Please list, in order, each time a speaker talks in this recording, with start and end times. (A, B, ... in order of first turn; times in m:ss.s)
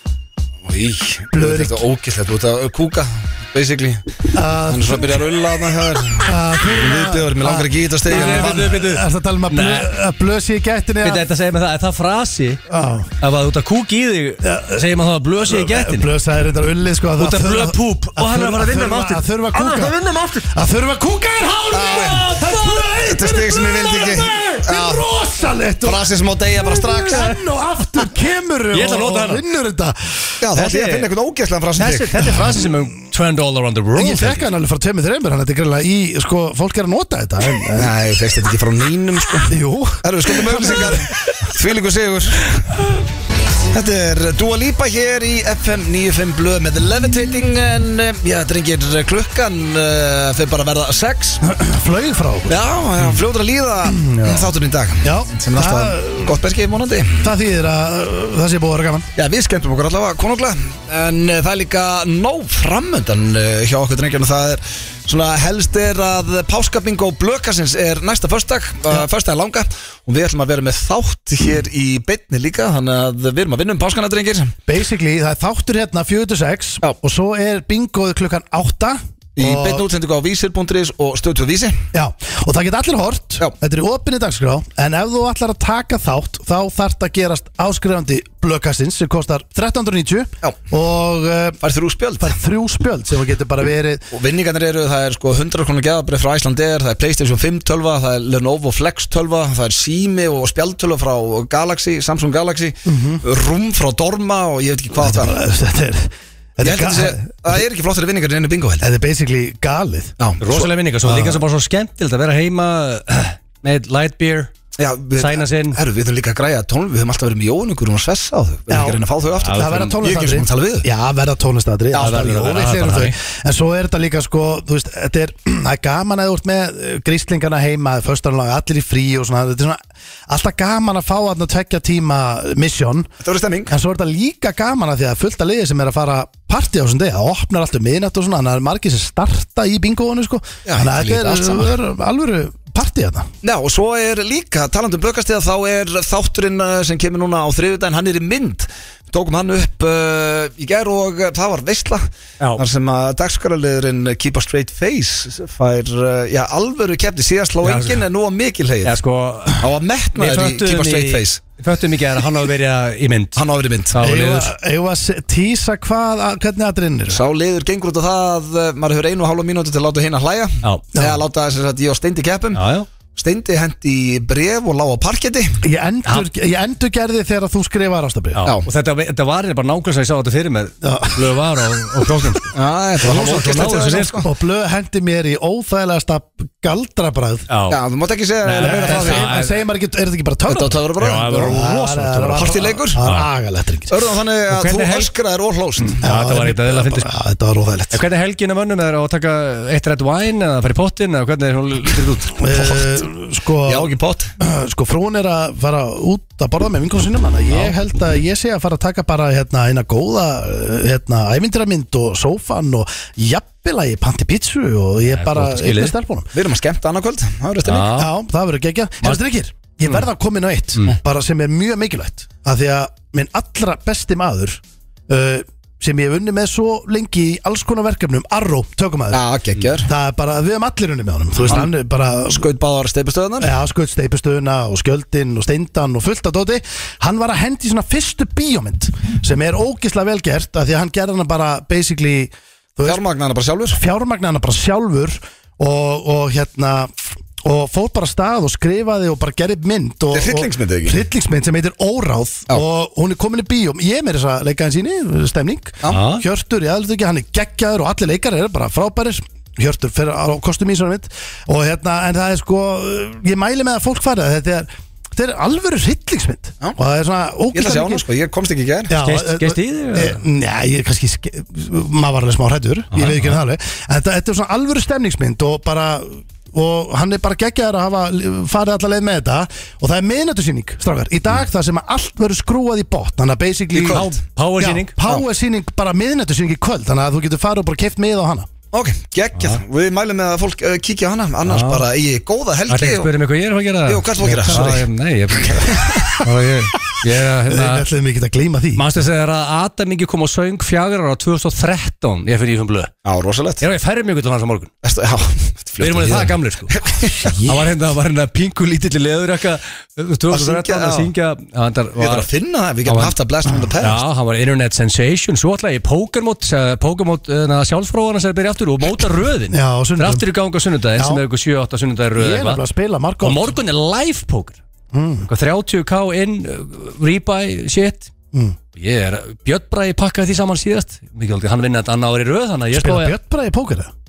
0:00.6-0:04.1 A
0:01.3-0:01.8 B
0:04.3-0:05.3 B
0:04.7-0:08.8 A
0:06.2-0:11.2 B
0:08.1-0:09.9 C
0:11.0-0:12.6 C
0:12.7-0:13.1 B
0:13.2-0:16.1 C
0:14.4-0:14.9 B
0:15.4-0:30.4 B
0:17.2-0:20.5 C
0:21.7-0:22.3 A
0:21.9-0:23.3 C
0:23.0-0:25.0 A
0:23.9-0:24.7 C
0:25.8-0:27.4 A
0:28.7-0:29.4 C
0:30.4-0:32.4 A
0:30.6-0:31.1 C
0:31.8-0:34.5 C
0:34.0-0:38.0 B
0:37.8-0:42.7 A
0:39.5-0:41.0 B
0:43.7-0:51.4 A
0:51.4-0:52.6 B
0:52.5-0:57.3 A
0:53.8-0:54.5 B
0:55.0-0:56.4 B
0:57.2-0:59.1 B
0:59.2-1:14.6 A
1:14.7-1:19.9 B
1:19.4-1:21.8 A
1:21.9-1:31.6 B
1:31.6-1:32.4 A
1:32.2-1:34.0 B
1:34.1-1:45.4 A
1:42.9-1:43.2 B
1:45.0-1:47.6 B
1:46.6-1:48.9 A
1:48.8-1:50.1 B
1:50.2-1:50.7 A
1:50.4-1:54.5 C
1:51.0-1:51.4 B
1:54.8-2:00.9 A
1:55.2-1:55.8 C
1:58.7-2:13.1 B
1:59.4-1:59.8 C
2:01.9-2:03.2 C
2:02.0-2:02.3 A
2:13.2-2:13.7 A
2:13.7-2:23.3 B
2:20.7-2:21.7 A
2:23.4-2:32.0 A
2:32.6-2:39.0 A
2:37.6-2:38.0 C
2:38.8-2:39.6 C
2:39.6-2:41.4 A
2:40.2-2:43.4 C
2:43.4-2:44.0 A
2:43.9-2:44.5 C
2:44.0-2:47.2 B
2:47.1-2:55.6 A
2:50.6-2:50.9 C
2:52.5-2:52.9 C
2:55.6-2:58.4 B
2:58.4-3:04.2 C
3:00.8-3:02.4 B
3:02.5-3:04.3 A
3:03.0-3:07.5 B
3:07.5-3:07.8 C
3:07.7-3:09.3 A
3:08.4-3:09.5 C
3:08.6-3:14.0 B
3:10.5-3:11.5 A
3:11.0-3:13.3 C
3:12.4-3:13.0 A
3:13.9-3:16.0 A
3:14.5-3:15.1 C
3:15.8-3:17.1 C
3:16.0-3:18.0 B
3:17.9-3:22.4 C
3:22.4-3:36.3 B
3:22.5-3:23.0 A
3:23.7-3:24.3 A
3:35.1-3:36.0 C
3:36.3-3:38.0 A
3:37.7-3:38.1 C
3:37.9-3:49.2 B
3:49.1-3:49.9 A
3:49.8-3:52.5 B
3:52.3-3:53.5 A
3:53.4-4:03.0 B
4:02.8-4:03.8 A
4:03.7-4:28.0 B
4:10.1-4:11.0 A
4:15.9-4:16.2 C
4:27.5-4:28.9 A
4:28.9-4:48.5 B
4:29.0-4:30.2 C
4:43.8-4:44.2 A
4:43.8-4:44.9 C
4:48.7-4:53.1 A
4:51.5-4:51.8 C
4:52.7-4:57.9 C
4:53.9-4:54.8 A
4:54.2-4:54.8 B
4:55.6-4:56.2 A
4:57.5-4:58.9 B
4:58.8-5:02.9 C
5:03.0-5:03.6 A
5:03.6-5:04.7 C
5:04.8-5:07.6 A
5:05.8-5:12.3 C
5:10.3-5:11.1 A
5:12.0-5:14.0 A
5:12.8-5:13.2 C
5:13.8-5:22.6 C
5:19.5-5:20.2 B
5:21.0-5:21.2 B
5:22.2-5:23.6 B
5:23.2-5:24.6 C
5:24.9-5:25.3 B
5:25.3-5:28.1 C
5:28.8-5:33.1 C
5:32.7-5:33.9 B